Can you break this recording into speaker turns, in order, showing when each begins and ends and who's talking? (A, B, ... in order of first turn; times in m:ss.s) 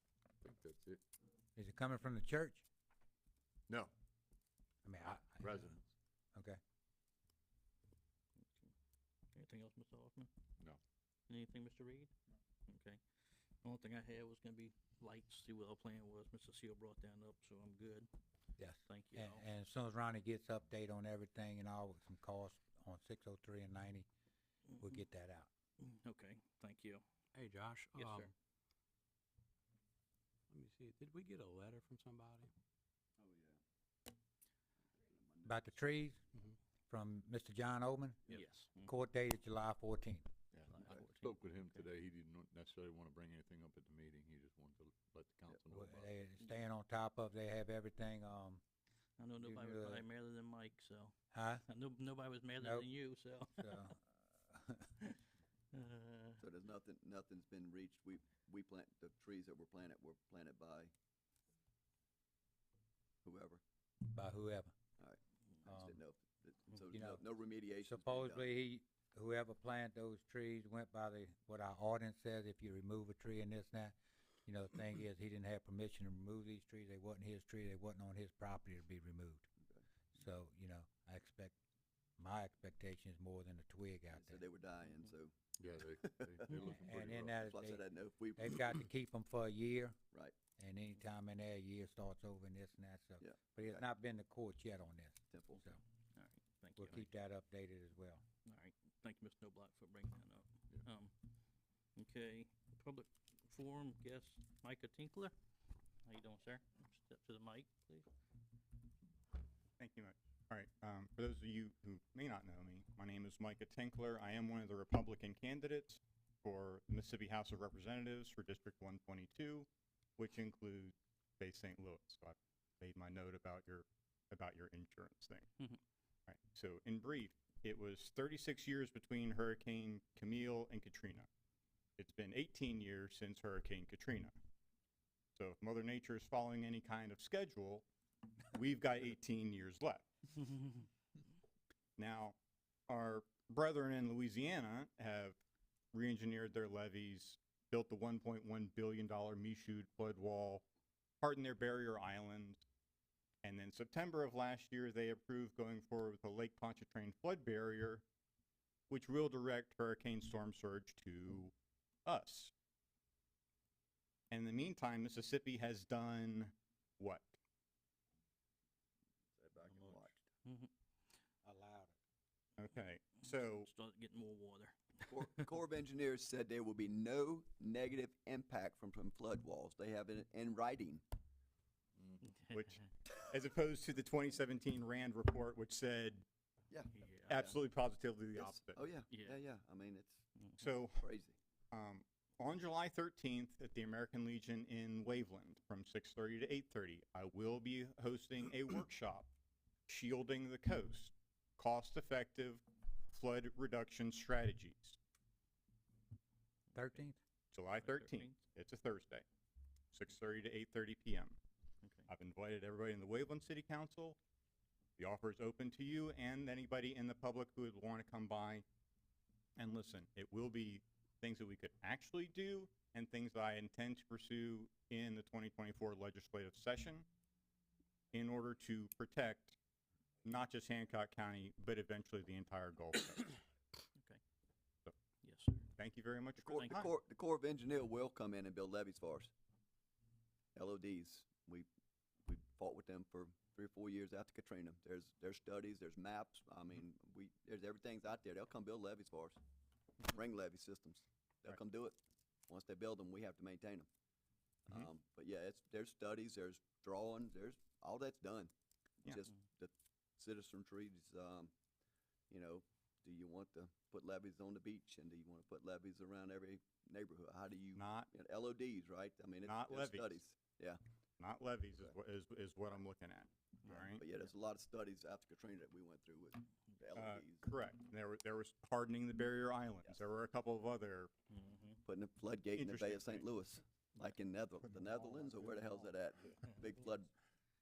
0:00.4-0:01.0 A
0:01.6-0:02.6 B
0:04.8-0:05.8 B
0:05.4-0:05.9 A
0:06.3-0:06.6 B
0:08.4-0:08.7 C
0:09.4-0:10.3 C
0:11.3-0:12.1 C
0:12.7-0:13.0 C
0:13.6-0:18.1 C
0:18.6-0:24.1 B
0:18.9-0:19.4 C
0:24.8-0:25.5 B
0:25.8-0:27.0 C
0:27.4-0:28.3 D
0:27.9-0:28.3 C
0:30.5-0:32.5 D
0:33.2-0:33.6 E
0:35.0-0:35.8 E
0:35.5-0:36.2 B
0:36.9-0:38.2 B
0:38.3-0:38.9 C
0:38.8-0:40.3 B
0:40.5-0:46.1 A
0:40.7-0:41.9 C
0:45.7-0:48.6 B
0:49.2-0:51.1 C
0:49.4-0:50.0 B
0:51.3-0:51.6 B
0:51.6-0:53.8 C
0:52.6-0:52.9 B
0:53.5-0:54.9 B
0:55.7-0:56.4 C
0:56.4-1:00.9 E
1:03.2-1:03.6 E
1:04.0-1:04.7 B
1:05.0-1:08.5 E
1:05.7-1:06.0 B
1:06.9-1:07.2 B
1:07.8-1:19.5 B
1:20.1-1:21.6 B
1:22.2-1:24.4 B
1:24.1-1:25.3 E
1:25.6-1:27.4 A
1:26.0-1:26.5 E
1:26.6-1:27.8 B
1:27.4-1:28.9 E
1:28.4-1:30.0 B
1:30.6-1:35.8 B
1:33.2-1:33.8 E
1:35.3-1:35.6 E
1:36.2-1:37.1 C
1:36.8-1:38.2 B
1:38.5-1:41.1 C
1:42.0-1:45.3 C
1:46.0-1:48.1 C
1:49.8-2:05.5 F
2:06.3-2:11.3 F
2:12.0-2:14.3 F
2:15.4-2:17.8 F
2:18.5-2:20.1 F
2:22.0-2:22.4 F
2:22.9-2:25.4 F
2:25.9-2:30.6 F
2:31.2-2:32.6 F
2:33.4-2:38.0 F
2:38.9-2:41.5 F
2:42.1-2:42.5 F
2:44.3-2:47.4 F
2:49.4-2:50.2 E
2:49.7-2:50.1 A
2:50.4-2:50.7 C
2:51.4-2:51.9 B
2:52.6-2:53.7 F
2:53.2-2:55.4 C
2:55.1-3:01.0 E
3:02.2-3:02.8 C
3:02.5-3:06.2 F
3:06.7-3:07.6 E
3:06.9-3:07.4 C
3:07.3-3:08.8 F
3:08.4-3:10.2 E
3:09.1-3:09.4 C
3:10.4-3:10.7 C
3:10.6-3:11.1 F
3:11.0-3:11.4 E
3:11.7-3:19.3 F
3:19.9-3:25.0 F
3:26.8-3:27.2 B
3:27.5-3:29.2 F
3:27.8-3:28.4 C
3:29.9-3:31.4 F
3:32.1-3:34.2 F
3:35.0-3:38.6 F
3:39.6-3:47.1 F
3:48.1-3:49.6 F
3:50.2-3:53.4 F
3:54.0-3:54.2 C
3:55.2-3:55.7 C
3:55.8-3:56.9 F
3:56.4-3:59.3 E
3:56.5-3:56.8 C
4:00.6-4:01.7 E
4:02.2-4:09.4 E
4:10.0-4:12.0 E
4:12.5-4:13.9 E
4:14.7-4:18.5 E
4:19.0-4:21.5 E
4:22.3-4:30.8 E
4:27.8-4:28.1 F
4:29.5-4:30.2 F
4:31.2-4:34.0 F
4:34.0-4:37.5 E
4:37.0-4:41.1 F
4:41.3-4:41.8 C
4:41.9-4:47.1 E
4:42.6-4:43.3 F
4:44.7-4:45.9 B